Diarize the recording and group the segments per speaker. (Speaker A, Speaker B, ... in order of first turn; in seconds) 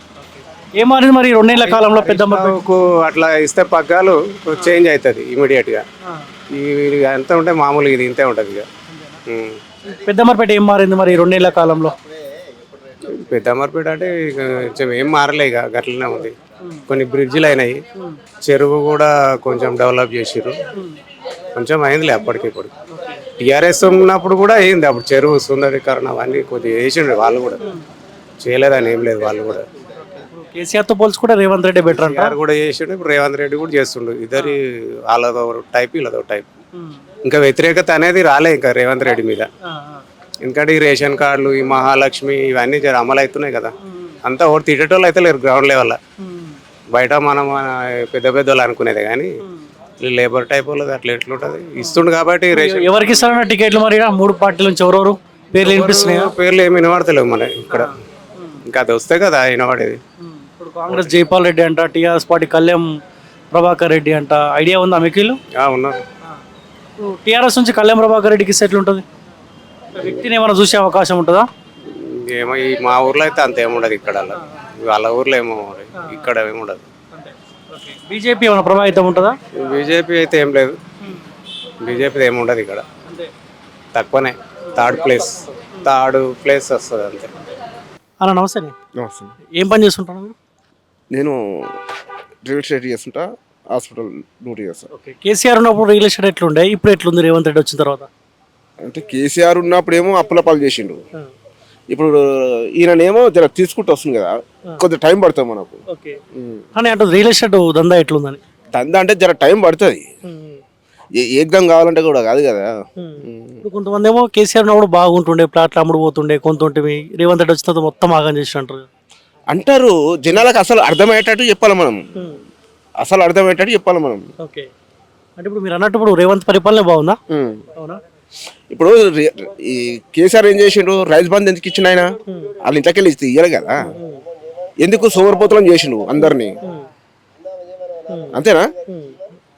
Speaker A: 0.1-2.6, 8.9-9.2, 9.8-11.9, 22.9-23.2, 30.1-32.4, 36.7-37.0, 39.6-40.0, 43.8-44.1, 46.2-46.6, 52.5-56.3, 57.7-58.6, 60.2-62.9, 63.5-65.4, 67.0-69.0, 70.0-71.5, 76.0-76.3, 77.1-79.3, 83.0-83.3, 88.2-88.7, 89.5-90.3, 94.9-98.1, 105.9-106.2, 106.8-108.4, 110.3-110.6, 113.0-118.8, 122.1-122.4, 124.4-124.7, 125.4-127.2, 133.8-134.2, 136.2-136.8, 138.9-139.2
Speaker B: 1.6-5.8, 6.5-8.7, 9.3-9.6, 13.1-16.4, 16.9-17.8, 18.4-20.6, 21.5-22.7, 23.4-27.6, 28.4-29.6, 31.9-36.5, 37.2-39.5, 40.4-46.0, 46.9-49.3, 50.0-53.1, 55.6-57.9, 58.7-60.0, 65.6-66.0, 70.0-70.2, 71.9-76.8, 79.6-80.8, 81.8-82.8, 83.9-87.4
Speaker C: 89.0-89.3, 91.1-91.7, 92.4-94.9, 98.8-101.0, 101.9-102.2, 102.8-105.8, 106.3-106.6, 108.7-110.0, 111.2-112.7, 113.2-113.6, 119.5-122.0, 123.0-124.2, 127.3-127.6, 128.7-132.1, 132.6-133.8, 134.8-136.5, 138.3-138.7